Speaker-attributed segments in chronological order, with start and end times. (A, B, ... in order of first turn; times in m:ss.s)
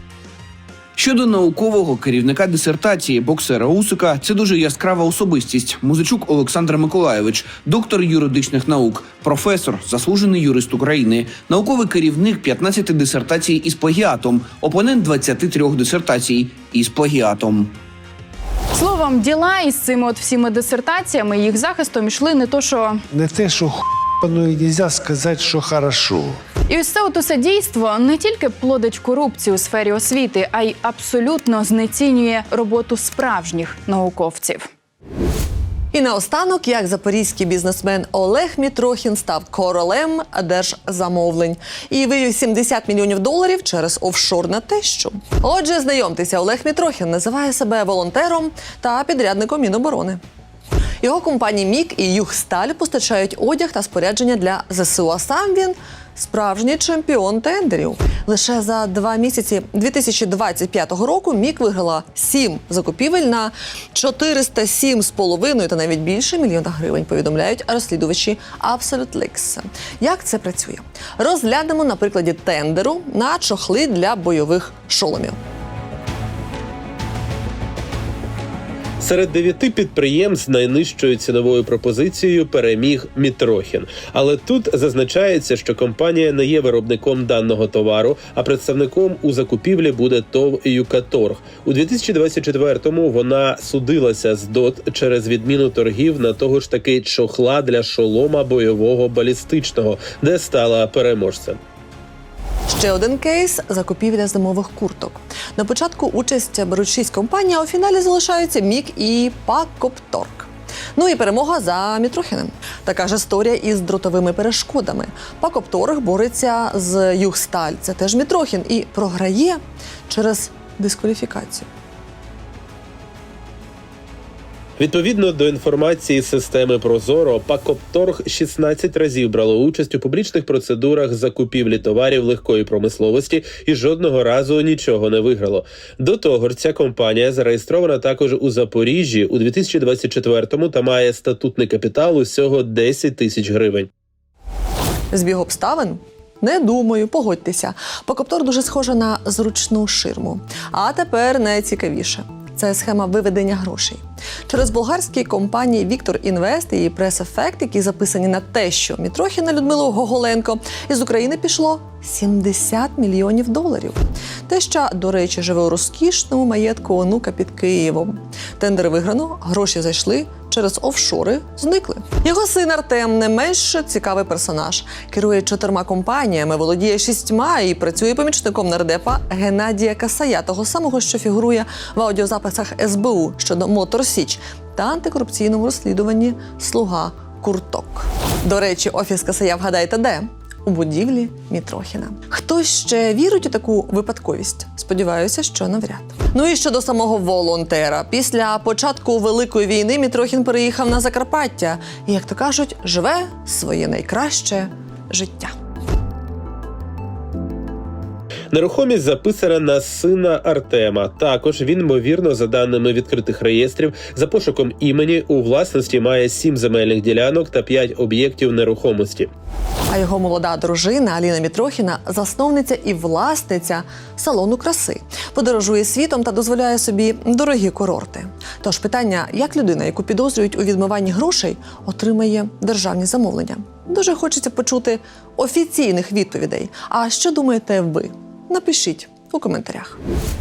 0:01.0-0:17.8 A
0:18.7-0:23.0 B
0:23.1-0:26.4 C
0:26.7-0:34.7 B
0:35.9-0:50.2 D
0:51.0-1:15.4 D
1:19.0-1:41.6 E
1:42.7-2:01.7 D
2:04.8-2:23.9 E
2:25.1-3:25.5 D
3:28.5-3:39.3 E
3:39.9-4:00.0 D